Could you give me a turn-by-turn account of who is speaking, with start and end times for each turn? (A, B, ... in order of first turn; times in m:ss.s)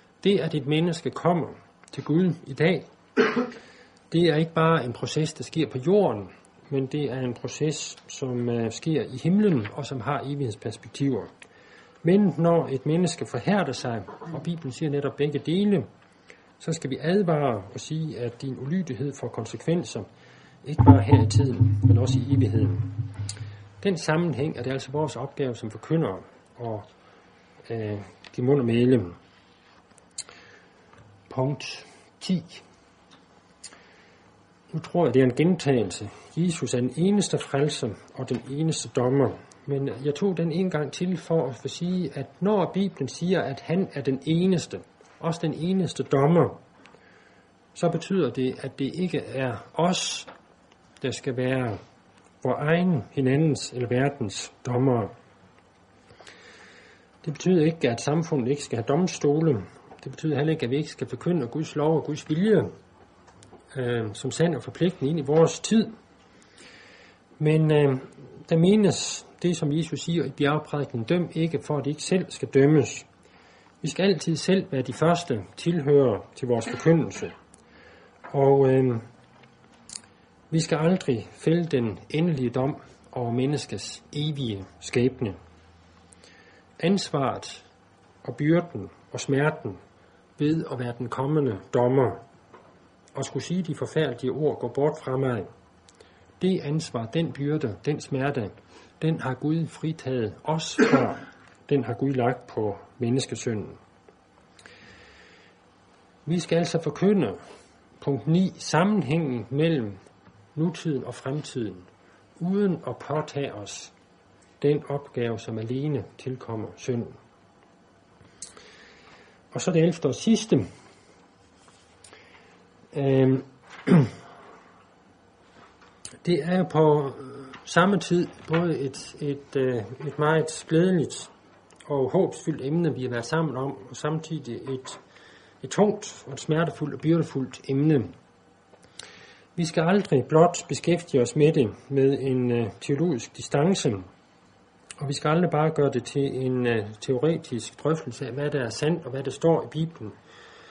0:00.2-0:03.5 A
0:04.1-0:11.3 A
0:12.0-0:15.9 A
0:16.6-0:20.1 A
0:20.6-0:23.0 A
0:23.8-0:26.9 A
0:27.7-0:29.2 A
0:31.3-0:32.6 A
0:34.7-0:46.6 A
0:47.7-0:50.3 A
0:51.0-0:51.8 A
0:52.4-0:55.1 A
0:57.2-1:02.7 A
1:03.7-1:05.9 A
1:07.4-1:13.1 A
1:13.8-1:17.3 A
1:18.3-1:19.0 A
1:20.5-1:25.4 A
1:26.8-1:27.6 A
1:28.2-1:29.8 A
1:30.4-1:32.2 A
1:33.1-1:35.5 A
1:36.4-1:43.8 A
1:46.2-1:47.4 A
1:48.0-1:50.0 A
1:50.5-1:51.9 A
1:52.4-1:53.9 A
1:54.6-1:57.2 A
1:59.5-2:00.7 A
2:02.9-2:04.1 A
2:06.2-2:11.3 A
2:11.9-2:15.0 A
2:15.6-2:18.1 A
2:19.6-2:24.1 A
2:25.0-2:30.2 A